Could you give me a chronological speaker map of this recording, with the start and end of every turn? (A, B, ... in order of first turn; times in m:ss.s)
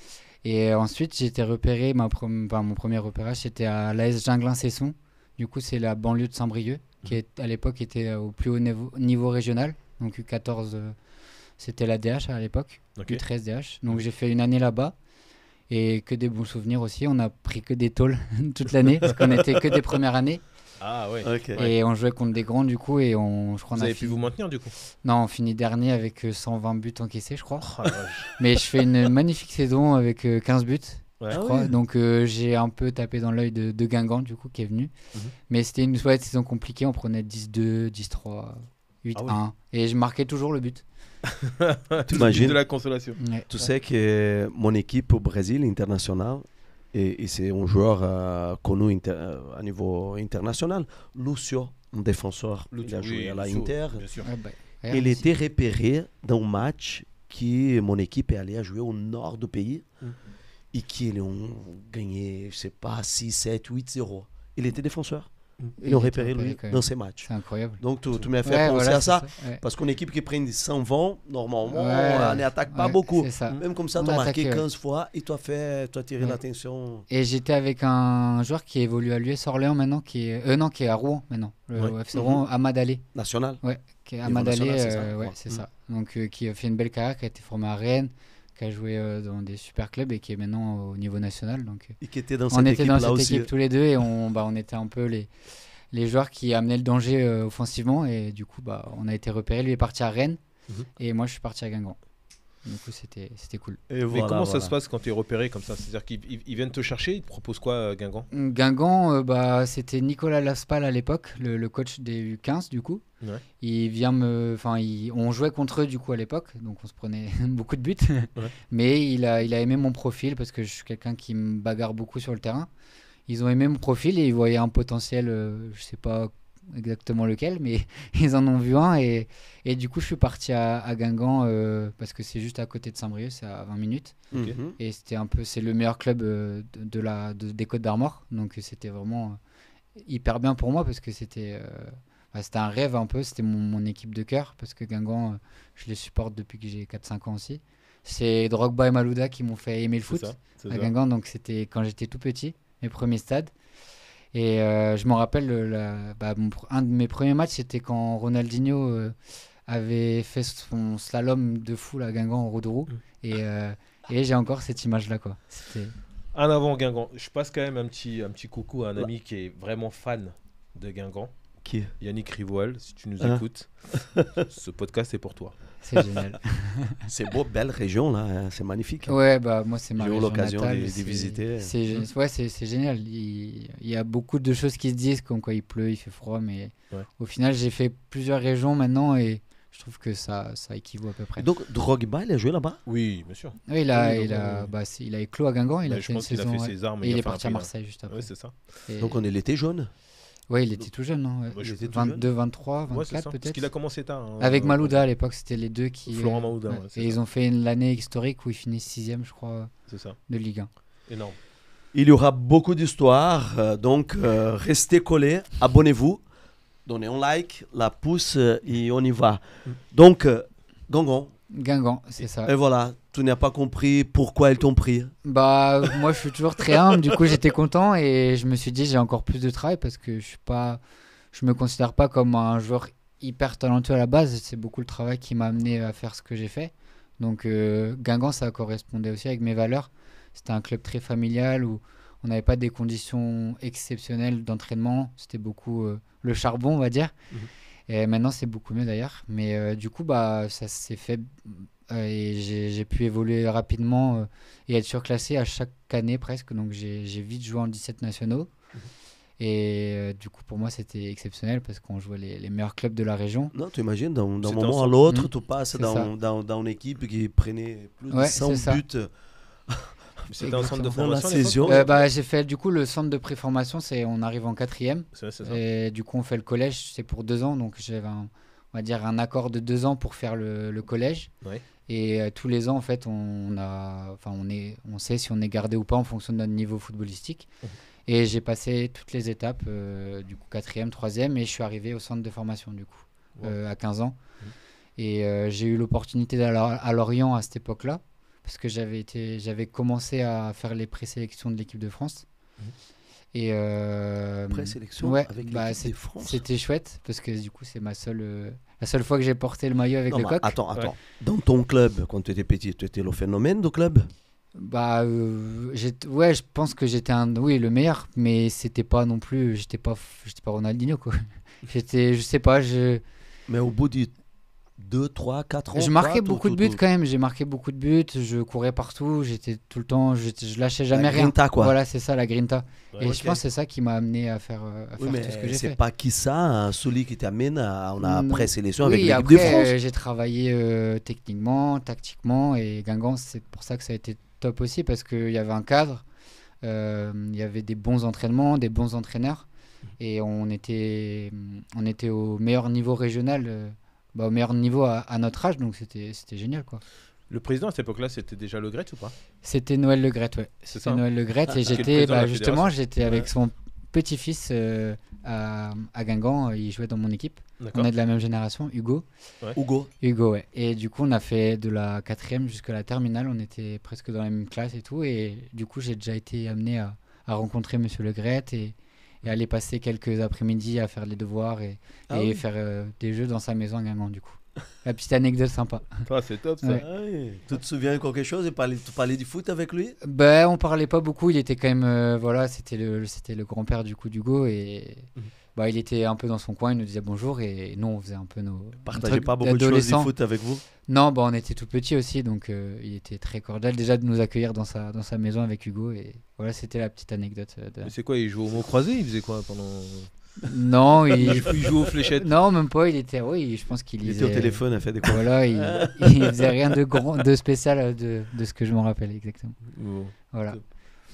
0:00.4-0:10.9 A
0:11.6-0:15.0 A
0:13.0-0:13.2 B
0:15.7-0:20.4 A
0:20.8-0:21.7 B
0:21.2-0:21.7 C
0:21.6-0:24.3 A
0:23.7-0:24.8 B
0:25.0-0:27.7 A
0:27.6-0:28.3 B
0:28.3-0:34.9 A
0:31.3-0:31.8 C
0:35.5-0:40.8 A
0:39.1-0:39.4 B
0:41.4-0:43.7 B
0:42.1-0:42.6 C
0:43.2-0:43.5 A
0:43.5-0:54.1 C
0:52.7-0:54.3 B
0:54.2-0:55.2 A
0:54.9-0:59.9 C
1:00.7-1:17.0 C
1:05.8-1:07.8 A
1:08.4-1:09.6 A
1:11.7-1:14.6 A
1:17.1-1:23.0 A
1:22.1-1:22.4 C
1:23.1-1:23.6 C
1:23.6-1:32.0 A
1:24.2-1:25.4 C
1:32.0-1:33.5 C
1:32.5-1:35.3 A
1:35.9-1:40.4 A
1:41.0-1:42.0 A
1:42.6-1:43.8 A
1:43.9-1:44.7 C
1:44.1-1:48.3 B
1:48.3-1:53.0 A
1:53.6-2:02.7 A
2:03.3-2:19.4 A
2:14.3-2:14.8 C
2:20.0-2:33.5 A
2:30.1-2:30.9 B
2:34.3-2:39.2 A
2:39.7-2:45.9 A
2:46.3-2:51.3 B
2:51.6-2:51.9 C
2:52.0-2:55.6 B
2:55.8-2:57.0 A
2:57.1-2:59.2 C
2:59.1-3:11.5 A
3:00.0-3:01.7 C
3:11.4-3:12.8 C
3:12.8-3:14.7 B
3:13.7-3:18.3 A
3:15.8-3:18.6 B
3:18.8-3:19.2 A
3:19.0-3:19.9 C
3:20.5-3:23.6 A
3:21.5-3:21.8 B
3:21.6-3:22.3 C
3:22.9-3:25.0 B
3:24.4-3:29.7 A
3:26.0-3:27.2 B
3:29.9-3:30.2 B
3:30.3-3:30.7 A
3:31.1-3:31.4 B
3:31.9-3:36.2 C
3:36.8-3:41.3 C
3:41.5-3:42.5 A
3:42.4-3:45.1 C
3:45.2-3:50.8 A
3:51.3-4:07.1 A
4:07.9-4:18.5 A
4:19.4-4:23.5 A
4:23.5-4:29.1 C
4:24.4-4:25.0 B
4:25.1-4:26.1 A
4:28.1-4:28.8 A
4:29.7-4:31.9 C
4:30.3-4:32.1 B
4:30.4-4:31.0 A
4:31.6-4:41.3 A
4:35.1-4:35.6 B
4:41.9-4:47.5 A
4:48.1-4:54.2 A
4:55.0-5:02.2 A
5:03.3-5:10.6 A
5:04.5-5:06.4 C
5:10.1-5:14.1 C
5:14.6-5:23.0 A
5:23.5-5:24.1 C
5:24.8-5:26.8 C
5:25.7-5:35.8 A
5:30.9-5:31.8 C
5:33.0-5:33.4 C
5:35.0-5:39.7 C
5:38.0-5:46.0 A
5:46.6-5:49.5 A
5:50.0-5:56.8 A
5:57.3-5:59.1 B
5:59.4-6:09.0 A
6:00.7-6:02.7 B
6:07.6-6:07.9 B
6:09.5-6:09.9 C
6:10.0-6:26.0 A
6:22.1-6:22.4 C
6:26.0-6:26.8 B
6:26.8-6:30.0 C
6:30.0-6:40.1 A
6:38.8-6:40.6 C
6:40.8-6:47.9 A
6:47.8-6:50.1 B
6:50.5-6:51.6 A
6:51.2-6:52.3 B
6:52.1-6:59.6 A
6:54.0-6:56.7 C
6:59.6-7:00.6 B
7:00.3-7:00.6 A